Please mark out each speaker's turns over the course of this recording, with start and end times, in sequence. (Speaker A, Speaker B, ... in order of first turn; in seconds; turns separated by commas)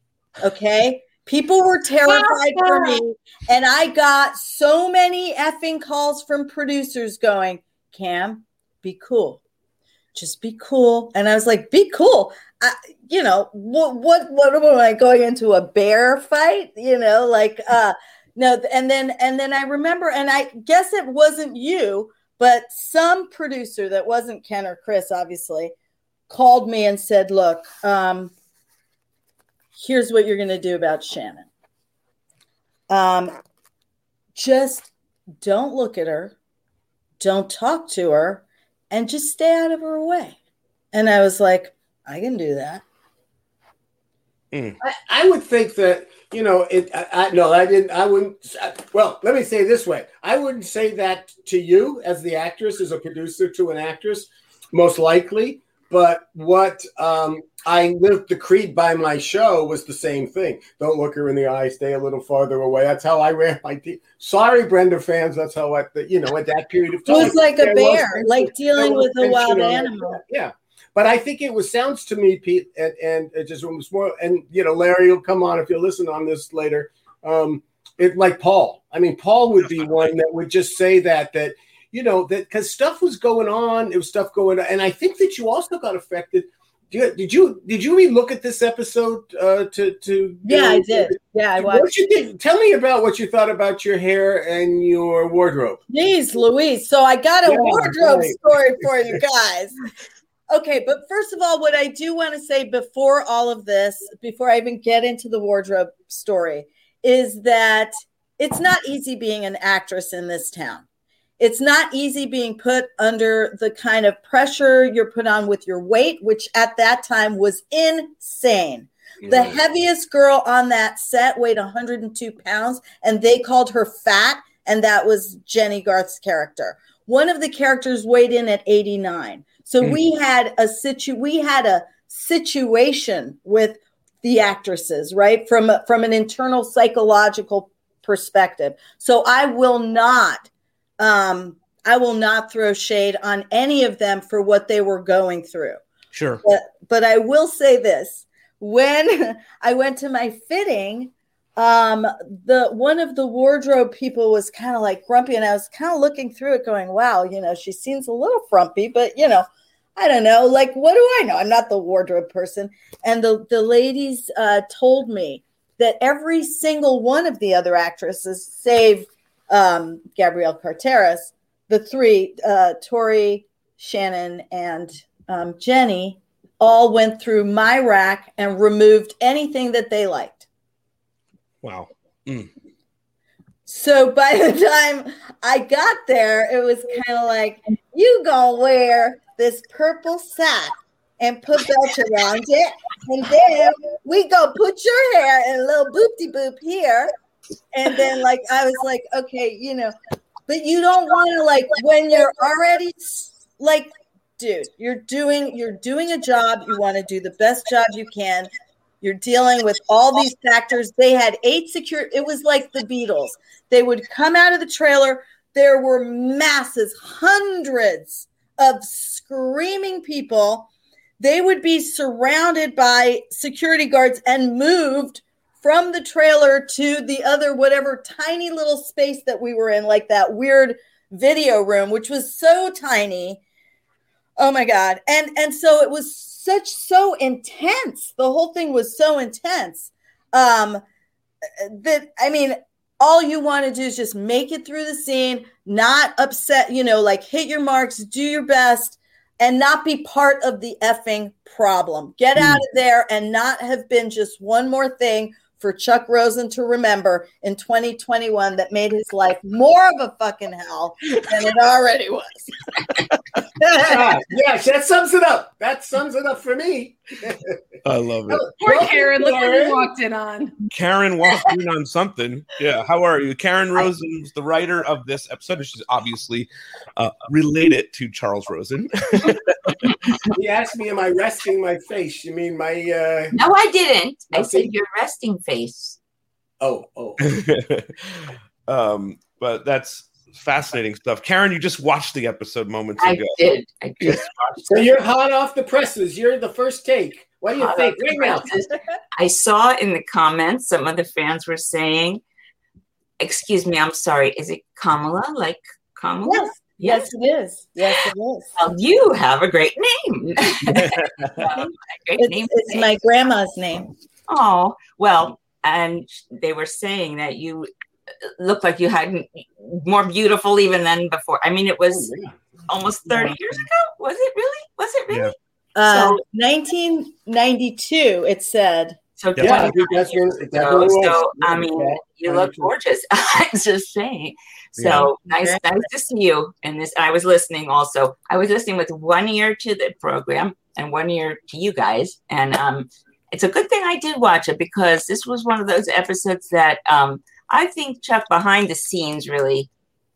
Speaker A: 0.4-9.4, Speaker B: 2.1-3.0, Speaker A: 10.2-25.7, Speaker A: 26.3-28.3, Speaker A: 29.8-31.5, Speaker A: 32.9-33.4, Speaker A: 34.4-34.9, Speaker A: 35.4-36.4, Speaker A: 37.2-40.4, Speaker A: 40.9-42.8, Speaker C: 44.5-44.8, Speaker D: 44.8-95.8, Speaker A: 67.1-70.2, Speaker A: 90.5-92.0, Speaker A: 95.9-99.8, Speaker D: 97.4-99.2, Speaker A: 100.5-110.8, Speaker A: 111.4-140.5, Speaker D: 119.2-119.6, Speaker A: 141.0-145.8, Speaker C: 146.1-146.4, Speaker A: 146.4-180.4, Speaker C: 181.6-182.5, Speaker A: 183.7-197.1, Speaker A: 197.7-199.9, Speaker A: 200.5-208.5, Speaker A: 209.0-233.4, Speaker A: 234.4-240.8, Speaker A: 241.6-262.5, Speaker A: 263.6-264.0, Speaker D: 263.8-267.6, Speaker C: 267.9-268.5, Speaker D: 268.3-269.9, Speaker B: 268.6-270.6, Speaker C: 270.7-280.2, Speaker D: 280.3-283.4, Speaker E: 283.3-286.0, Speaker D: 284.3-284.7, Speaker D: 286.6-287.4, Speaker C: 287.2-293.4, Speaker E: 293.0-294.7, Speaker C: 294.0-294.6, Speaker D: 294.7-298.5, Speaker E: 297.6-302.2, Speaker E: 303.2-307.1, Speaker A: 306.2-308.5, Speaker E: 307.9-313.0, Speaker C: 310.7-311.4, Speaker A: 312.2-313.9, Speaker E: 314.3-317.7, Speaker E: 318.3-322.1, Speaker D: 321.9-322.4, Speaker E: 322.7-326.2, Speaker D: 323.1-323.3, Speaker A: 325.8-329.0, Speaker E: 329.2-349.7, Speaker C: 329.4-329.7, Speaker D: 329.4-332.7, Speaker C: 334.8-335.1